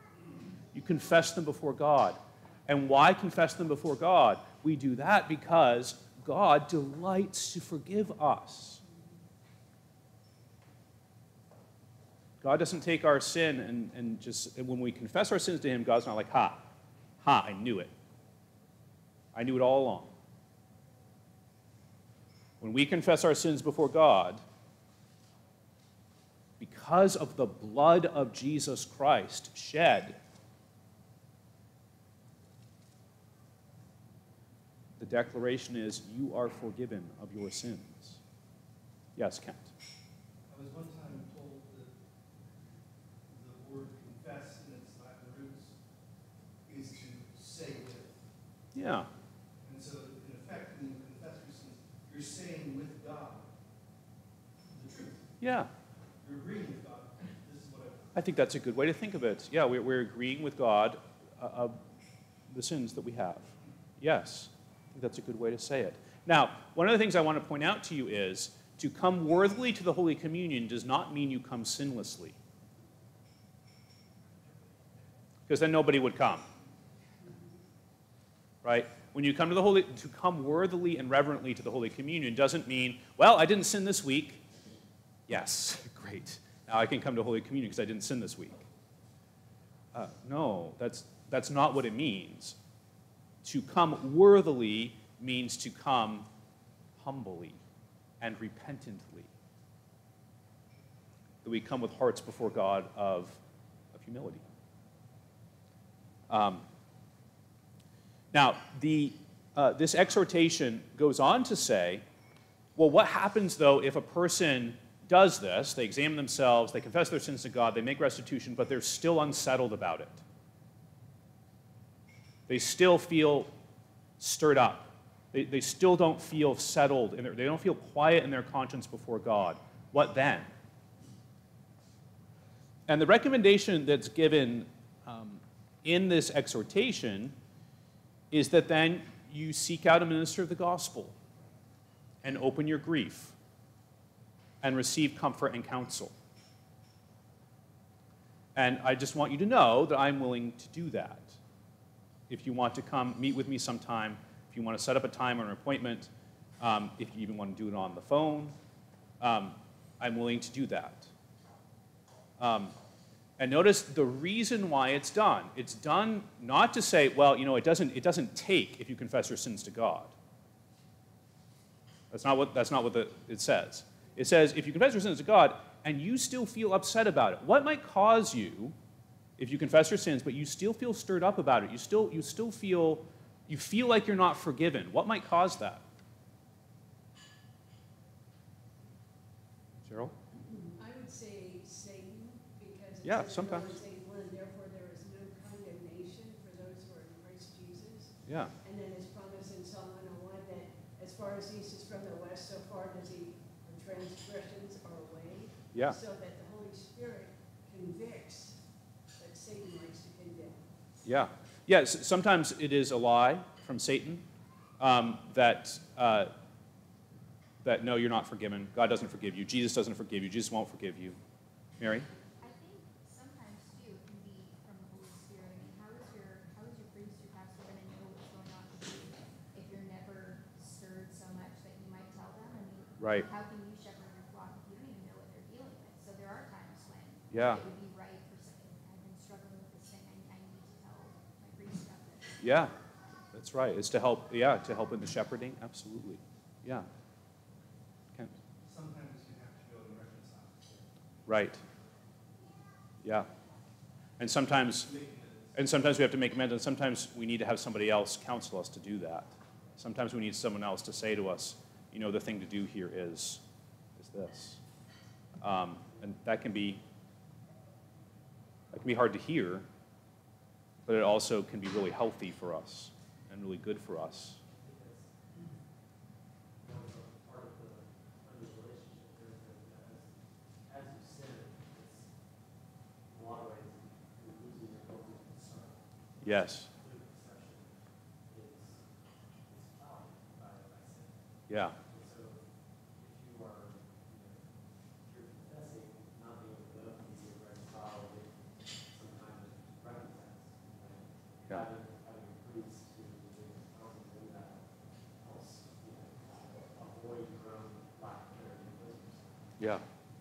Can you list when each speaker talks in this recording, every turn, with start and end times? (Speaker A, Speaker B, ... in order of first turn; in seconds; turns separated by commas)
Speaker A: 0.7-8.8, Speaker A: 12.4-16.7, Speaker A: 17.2-17.9, Speaker A: 19.3-20.1, Speaker A: 22.6-24.4, Speaker A: 26.6-30.2, Speaker A: 35.0-38.2, Speaker A: 39.1-39.7, Speaker B: 40.5-42.0, Speaker B: 43.3-45.8, Speaker B: 46.6-48.2, Speaker A: 48.7-49.1, Speaker B: 49.6-53.5, Speaker B: 54.7-55.3, Speaker A: 55.4-55.7, Speaker B: 56.2-58.2, Speaker A: 58.1-61.8, Speaker A: 62.5-72.4, Speaker A: 75.5-76.4, Speaker A: 78.6-84.4, Speaker A: 85.3-88.6, Speaker A: 89.9-92.6, Speaker A: 93.4-96.3, Speaker A: 97.0-97.6, Speaker A: 98.2-99.3, Speaker A: 101.4-103.4, Speaker A: 103.9-104.4, Speaker A: 106.3-106.6, Speaker A: 108.3-112.0, Speaker A: 112.8-120.2, Speaker A: 122.5-123.5, Speaker A: 124.2-130.5, Speaker A: 132.9-137.3, Speaker A: 138.3-141.1, Speaker A: 142.2-143.3, Speaker A: 144.6-146.1, Speaker A: 148.5-151.4, Speaker A: 152.3-158.5, Speaker A: 159.2-161.1, Speaker A: 162.4-162.7, Speaker A: 163.4-170.1, Speaker A: 172.1-178.7, Speaker A: 179.4-185.8, Speaker A: 189.8-190.1, Speaker C: 190.3-208.6, Speaker A: 193.0-193.8, Speaker A: 198.2-198.5, Speaker A: 205.7-206.0, Speaker C: 209.2-210.7, Speaker A: 211.0-214.2, Speaker A: 214.8-216.3, Speaker A: 217.6-221.2, Speaker A: 221.8-222.1, Speaker D: 222.4-242.4, Speaker A: 233.0-233.3, Speaker A: 237.3-237.6, Speaker A: 242.4-242.7, Speaker A: 243.3-246.9, Speaker B: 248.6-250.9, Speaker A: 251.3-251.6, Speaker A: 253.0-253.3, Speaker A: 254.2-254.9, Speaker B: 254.7-255.6, Speaker A: 255.5-263.4, Speaker A: 264.0-264.6, Speaker A: 265.4-266.8, Speaker A: 268.7-269.6, Speaker A: 270.9-274.4, Speaker E: 274.5-275.1, Speaker E: 276.6-282.1, Speaker E: 283.1-288.9, Speaker A: 286.2-286.7, Speaker E: 289.4-309.5, Speaker A: 291.5-291.8, Speaker A: 309.6-309.8